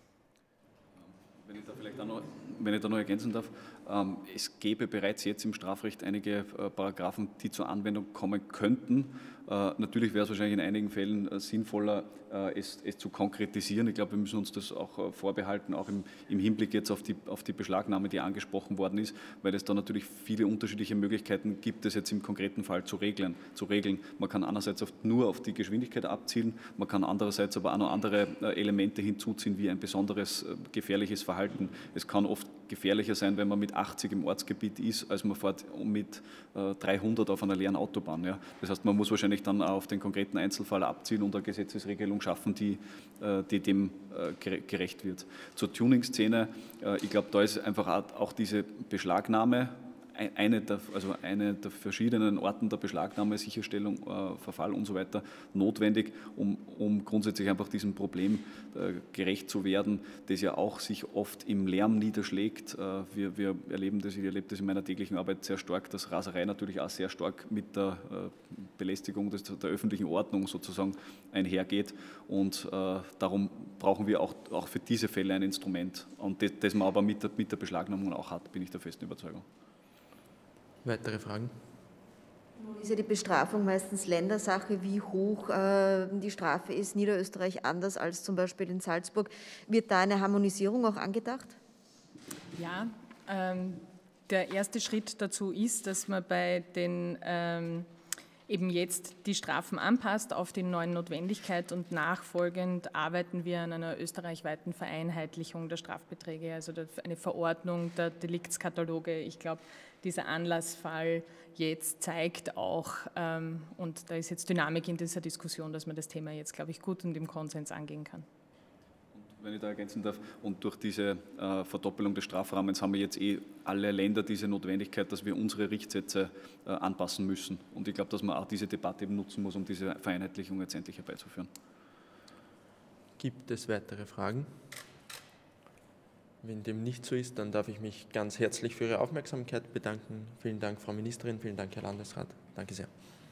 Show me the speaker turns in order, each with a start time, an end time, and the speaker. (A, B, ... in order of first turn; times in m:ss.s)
0:01.4-1:19.4 A
1:20.8-1:21.5 B
1:22.6-1:31.6 C
1:32.6-1:37.9 D
1:38.5-1:58.2 D
1:59.2-2:11.5 A
2:13.2-2:14.5 B
2:16.4-2:22.9 B